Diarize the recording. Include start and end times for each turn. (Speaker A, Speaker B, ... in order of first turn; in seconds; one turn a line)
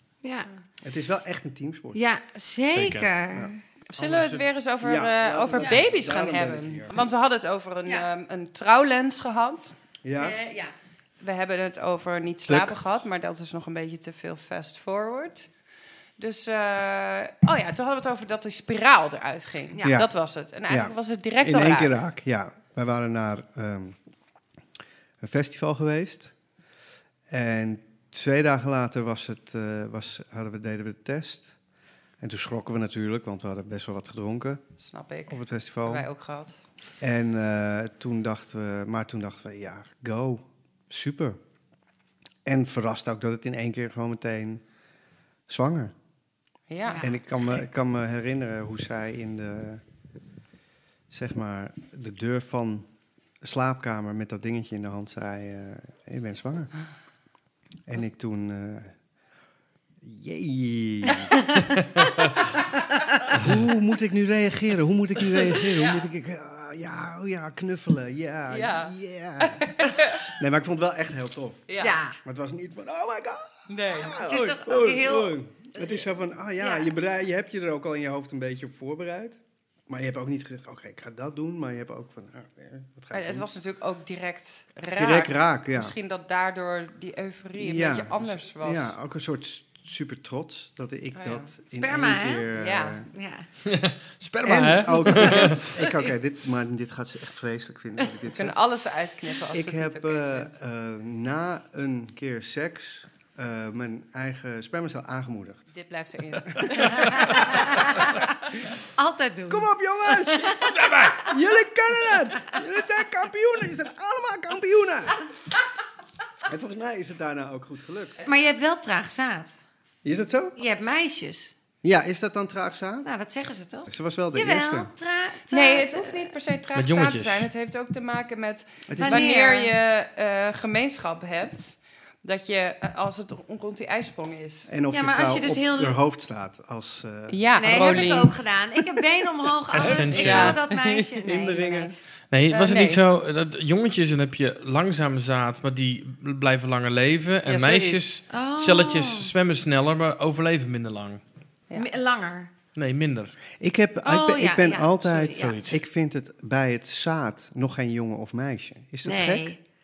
Speaker A: 0.2-0.5
Speaker B: 0.8-2.0
Speaker A: 1.9-3.6
Speaker C: 2.7-3.1
Speaker B: 3.3-7.0
Speaker D: 3.9-9.8
Speaker B: 10.0-10.4
Speaker A: 10.2-10.7
Speaker D: 11.2-15.5
Speaker B: 12.5-12.8
Speaker D: 16.2-22.0
Speaker B: 19.8-20.1
Speaker B: 20.7-24.0
Speaker B: 25.2-26.3
Speaker B: 27.3-31.5
Speaker B: 32.2-34.6
Speaker D: 34.8-36.6
Speaker B: 35.3-36.1
Speaker B: 37.0-41.4
Speaker B: 42.5-44.6
Speaker B: 45.5-45.9
Speaker D: 46.7-47.1
Speaker A: 46.9-47.2
Speaker B: 47.0-49.8
Speaker B: 51.1-52.9
Speaker B: 53.4-56.7
Speaker B: 57.9-59.0
Speaker B: 60.0-61.5
Speaker B: 62.4-62.6
Speaker B: 63.3-83.5
Speaker A: 65.7-66.0
Speaker D: 68.5-70.2
Speaker D: 71.7-72.0
Speaker A: 71.8-72.2
Speaker D: 73.7-74.2
Speaker A: 74.1-76.1
Speaker A: 76.6-76.9
Speaker D: 83.1-88.9
Speaker B: 85.0-86.0
Speaker B: 87.6-93.1
Speaker D: 91.2-91.5
Speaker A: 91.7-92.5
Speaker D: 92.5-93.0
Speaker A: 93.1-93.5
Speaker C: 93.7-95.7
Speaker B: 94.4-98.6
Speaker D: 98.3-100.5
Speaker B: 99.5-105.7
Speaker D: 105.7-107.2
Speaker B: 106.6-108.0
Speaker A: 106.9-108.3
Speaker A: 109.0-111.3
Speaker B: 109.5-115.3
Speaker C: 110.6-111.2
Speaker B: 116.4-118.2
Speaker A: 118.2-119.6
Speaker B: 120.0-120.6
Speaker A: 120.6-121.6
Speaker B: 121.8-123.1
Speaker A: 123.0-126.3
Speaker B: 123.9-124.9
Speaker D: 125.5-134.7
Speaker C: 126.8-127.5
Speaker B: 128.9-129.3
Speaker A: 129.0-129.7
Speaker B: 134.7-138.2
Speaker A: 134.9-136.0
Speaker D: 137.3-138.4
Speaker A: 137.6-141.9
Speaker C: 139.7-140.6
Speaker D: 139.8-141.1
Speaker B: 141.2-141.9
Speaker C: 142.3-151.2
Speaker D: 142.5-143.0
Speaker D: 147.5-148.0
Speaker A: 148.3-149.3
Speaker A: 151.7-152.5
Speaker C: 152.8-153.3
Speaker B: 153.6-159.5
Speaker A: 154.0-155.6
Speaker C: 155.4-155.8
Speaker A: 159.0-159.6